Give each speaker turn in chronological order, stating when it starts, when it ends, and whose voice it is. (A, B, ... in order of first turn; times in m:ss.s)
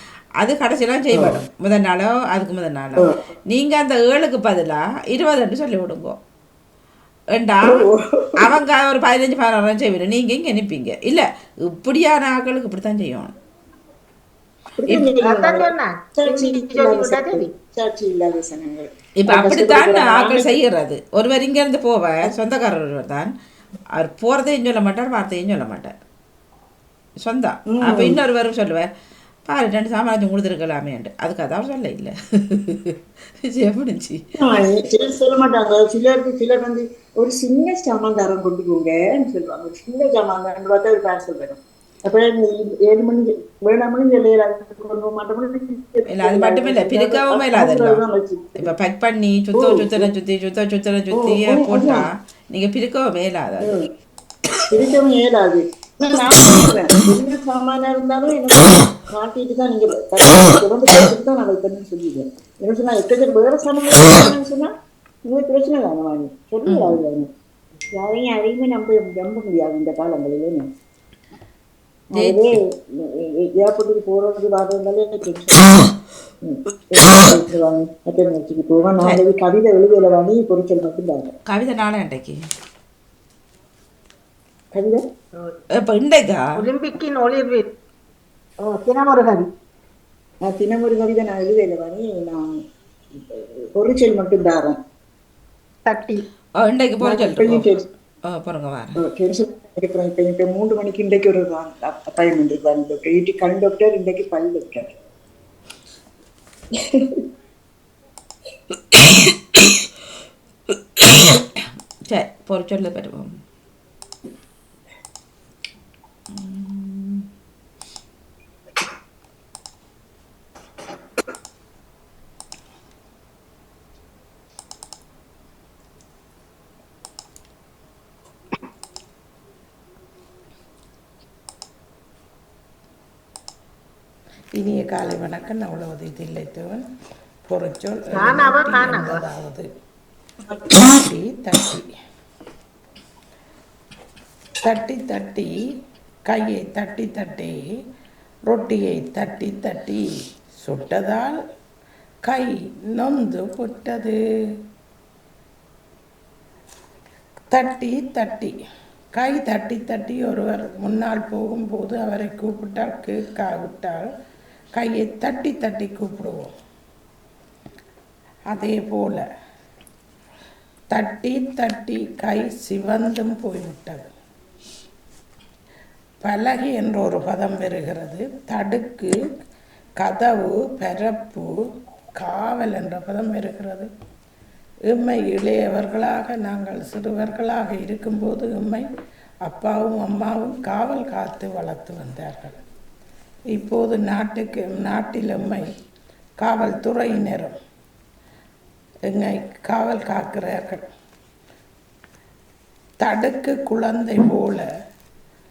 0:00.4-0:06.2 A
0:01.1-0:01.4 B
0:03.0-0:03.2 B
0:07.3-0:07.8 A
0:07.6-0:08.5 B
0:08.4-0:13.3 A
0:14.8-0:20.5 B
0:15.2-0:17.5 C
0:19.2-0:23.3 A
0:24.0-0:25.9 A
0:27.2-0:28.9 A
0:27.7-0:28.2 B
0:29.5-0:34.2 A
0:34.4-0:48.7 B
0:46.1-0:48.0 A
0:48.6-0:53.8 A
0:49.5-0:50.1 B
0:51.1-0:52.1 B
0:53.6-0:53.9 B
0:54.7-1:04.7 B
1:05.3-1:07.3 B
1:06.7-1:07.0 A
1:07.9-1:10.6 B
1:12.1-1:15.8 B
1:12.2-1:12.6 A
1:16.4-1:21.3 B
1:21.5-1:22.4 A
1:24.7-1:25.0 B
1:25.8-1:26.5 A
1:26.6-1:27.7 C
1:28.6-1:29.5 C
1:30.4-1:32.4 B
1:33.1-1:34.8 B
1:35.9-1:36.2 C
1:36.6-1:37.7 A
1:37.0-1:37.8 B
1:38.3-1:39.0 A
1:39.0-1:44.9 B
1:46.7-1:47.2 B
1:52.1-1:53.4 A
1:56.3-1:57.2 A
2:14.6-2:16.8 D
2:17.5-2:19.6 D
2:18.1-2:19.2 C
2:20.4-2:21.0 B
2:20.7-2:21.9 D
2:24.6-2:25.7 D
2:26.3-2:27.6 D
2:28.5-2:31.4 D
2:32.2-2:34.2 D
2:37.5-2:38.5 D
2:39.2-2:44.0 D
2:44.8-2:46.5 D
2:48.5-2:49.2 D
2:50.9-2:54.1 D
2:56.2-2:59.3 D
3:00.0-3:01.5 D
3:02.2-3:03.9 D
3:04.9-3:08.8 D
3:09.4-3:12.6 D
3:13.5-3:15.7 D
3:16.4-3:17.5 D
3:19.1-3:20.8 D
3:23.0-3:24.6 D